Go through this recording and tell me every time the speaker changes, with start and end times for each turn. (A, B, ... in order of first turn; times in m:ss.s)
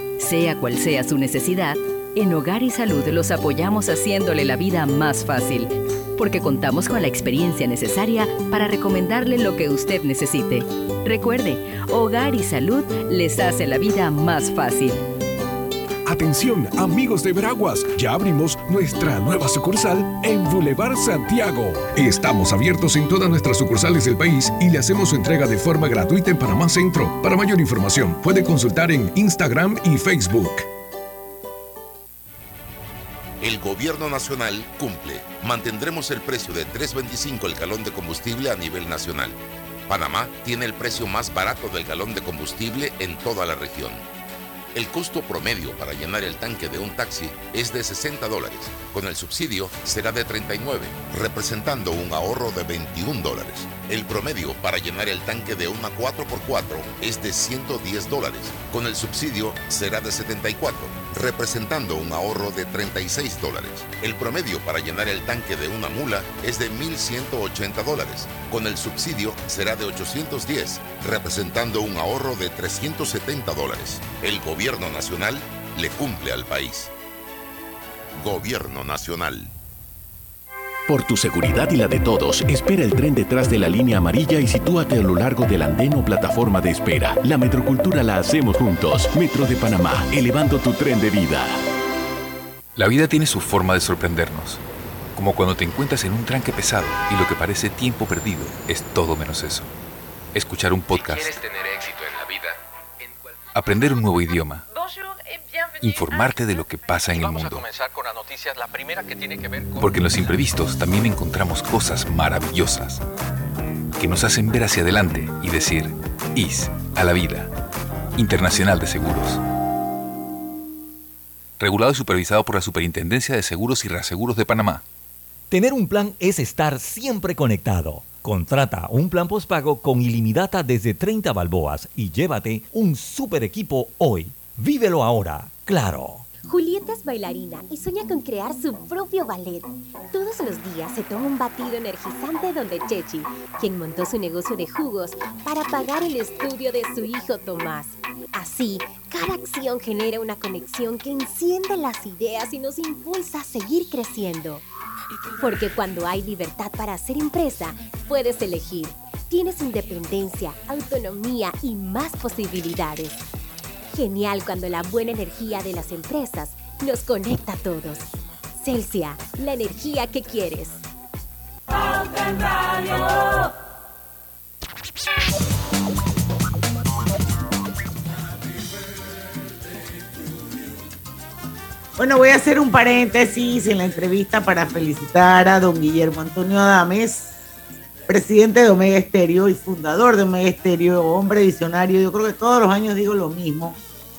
0:00.2-0:15.0 A
0:16.0-0:30.7 B
0:33.4-0:39.4 C
0:39.9-0:44.0 C
0:44.7-1:16.9 C
1:18.2-1:19.5 C
1:20.9-1:31.6 D
1:32.8-1:34.6 E
1:35.1-1:39.7 E
1:40.3-1:41.4 E
1:40.9-1:43.4 F
1:43.5-1:44.6 E
1:44.7-1:46.6 F
1:45.8-1:47.6 E
1:47.1-1:50.0 F
1:49.8-1:53.0 E
1:54.0-1:57.5 E
1:58.1-1:59.4 E
2:01.6-2:04.8 E
2:05.5-2:16.3 G
2:16.4-2:34.6 H
2:35.4-2:43.2 H
2:43.9-2:50.8 H
3:02.0-3:07.4 I
3:08.1-3:13.8 I